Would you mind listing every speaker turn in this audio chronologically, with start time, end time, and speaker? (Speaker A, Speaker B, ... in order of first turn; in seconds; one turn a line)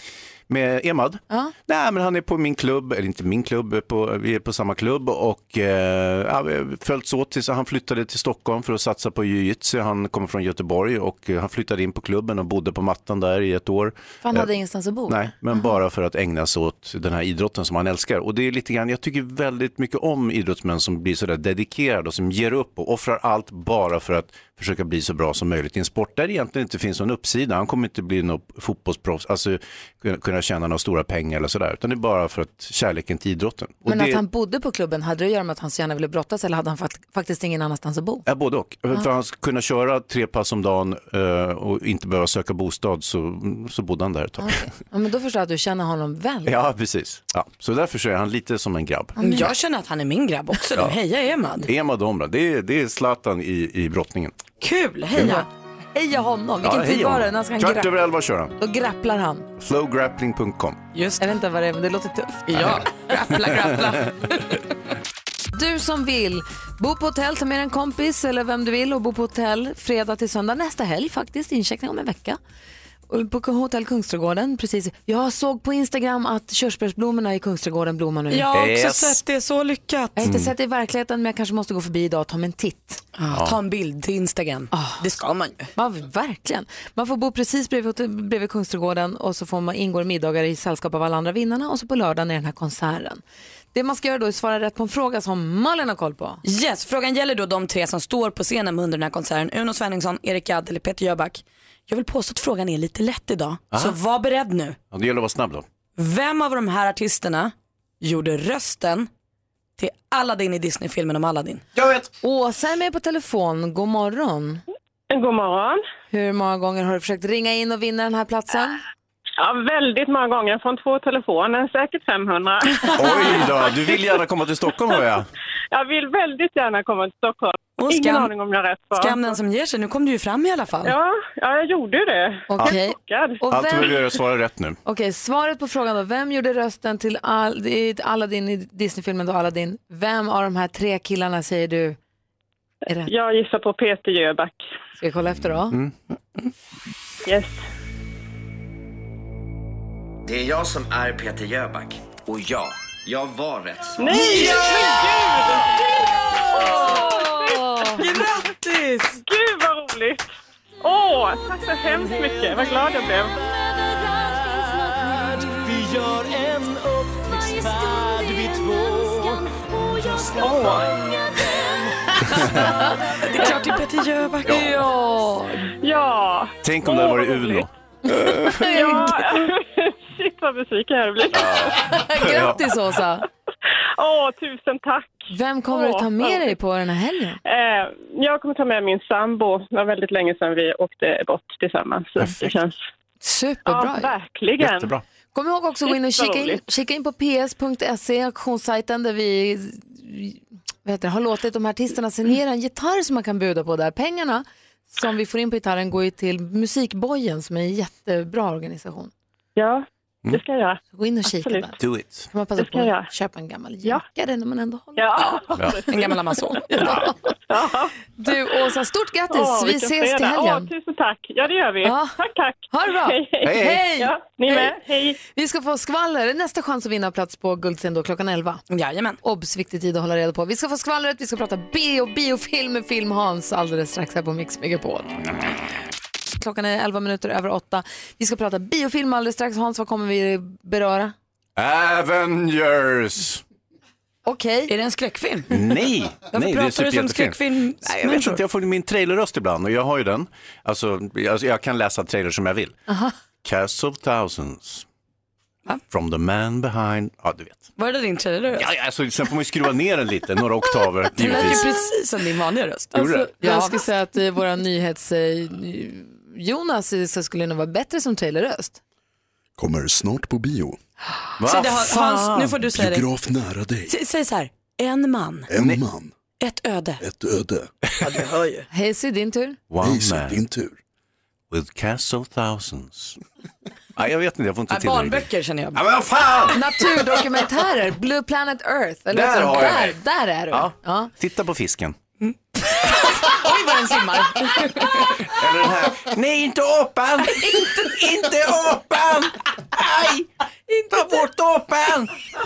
Speaker A: 0.5-14.5
Speaker B: 14.2-15.2
Speaker A: 15.1-34.2
Speaker B: 33.9-38.2
Speaker A: 38.2-44.6
Speaker B: 44.4-46.6
Speaker A: 46.5-49.2
Speaker B: 49.2-49.5
Speaker C: 49.2-51.7
Speaker A: 51.6-54.3
Speaker C: 54.6-55.5
Speaker A: 55.1-55.4
Speaker B: 55.2-57.9
Speaker A: 56.6-58.5
Speaker B: 58.6-59.5
Speaker A: 59.6-60.8
Speaker C: 60.9-61.3
Speaker B: 61.2-62.8
Speaker C: 62.5-64.6
Speaker B: 65.5-72.4
Speaker B: 73.1-78.5
Speaker C: 78.3-80.3
Speaker A: 78.5-79.2
Speaker B: 80.2-83.0
Speaker A: 80.2-80.5
Speaker C: 83.2-85.7
Speaker A: 83.3-83.6
Speaker B: 84.7-85.0
Speaker B: 85.7-93.2
Speaker B: 93.7-96.4
Speaker C: 96.4-104.8
Speaker A: 104.9-105.7
Speaker C: 106.0-109.1
Speaker C: 109.8-111.6
Speaker A: 111.7-112.1
Speaker B: 112.2-114.6
Speaker D: 115.1-115.8
Speaker B: 116.1-118.8
Speaker D: 119.4-123.8
Speaker A: 122.9-125.3
Speaker D: 125.7-129.3
Speaker C: 127.8-128.3
Speaker C: 128.9-130.9
Speaker D: 130.8-133.4
Speaker B: 132.5-133.9
Speaker A: 133.5-134.8
Speaker B: 134.8-142.0
Speaker D: 143.1-144.6
Speaker B: 145.0-145.8
Speaker D: 147.2-147.6
Speaker E: 150.2-154.0
Speaker D: 154.0-157.6
Speaker C: 154.1-154.6
Speaker F: 156.2-157.1
Speaker B: 156.6-158.0
Speaker C: 157.9-159.2
Speaker D: 159.2-160.3
Speaker D: 160.8-163.3
Speaker F: 162.4-162.8
Speaker F: 163.3-173.2
Speaker D: 170.4-170.9
Speaker B: 172.9-173.6
Speaker C: 173.2-174.8
Speaker B: 174.4-175.7
Speaker A: 174.5-174.8
Speaker D: 175.7-177.7
Speaker A: 176.6-178.9
Speaker B: 178.4-179.2
Speaker D: 178.6-181.8
Speaker A: 181.3-182.6
Speaker B: 181.8-183.2
Speaker D: 184.0-186.5
Speaker B: 185.3-187.4
Speaker D: 187.4-192.7
Speaker A: 192.2-192.6
Speaker B: 193.2-194.1
Speaker D: 193.7-195.0
Speaker A: 194.6-195.0
Speaker B: 195.3-209.1
Speaker D: 195.8-196.6
Speaker D: 209.6-211.7
Speaker B: 210.9-211.8
Speaker A: 211.8-212.3
Speaker B: 212.3-215.5
Speaker D: 212.6-213.1
Speaker D: 214.9-216.2
Speaker C: 215.8-216.9
Speaker B: 216.7-217.1
Speaker D: 216.7-218.7
Speaker B: 218.2-220.7
Speaker D: 219.3-225.2
Speaker B: 221.8-222.1
Speaker B: 222.7-228.6
Speaker A: 223.4-223.8
Speaker C: 228.7-229.2
Speaker B: 229.2-235.2
Speaker B: 236.4-241.1
Speaker A: 241.6-243.4
Speaker B: 244.2-244.7
Speaker C: 244.7-245.6
Speaker A: 245.5-252.8
Speaker C: 246.3-248.4
Speaker B: 252.9-253.1
Speaker A: 253.4-254.8
Speaker A: 255.9-257.7
Speaker C: 257.8-258.7
Speaker A: 258.5-261.7
Speaker C: 261.1-263.8
Speaker A: 262.9-263.3
Speaker B: 263.4-268.8
Speaker G: 269.6-270.8
Speaker A: 271.4-272.6
Speaker C: 271.4-273.1
Speaker G: 272.7-273.9
Speaker C: 273.9-275.5
Speaker G: 275.5-276.1
Speaker A: 275.6-275.8
Speaker C: 276.4-277.0
Speaker G: 277.0-277.6
Speaker C: 278.0-278.7
Speaker B: 278.7-279.6
Speaker A: 279.7-280.4
Speaker G: 279.8-280.7
Speaker A: 281.5-283.2
Speaker A: 283.9-285.2
Speaker C: 284.7-285.8
Speaker A: 285.7-287.0
Speaker B: 286.5-291.1
Speaker A: 289.1-290.0
Speaker A: 290.5-291.9
Speaker C: 292.2-295.1
Speaker A: 295.1-300.3
Speaker A: 300.9-302.1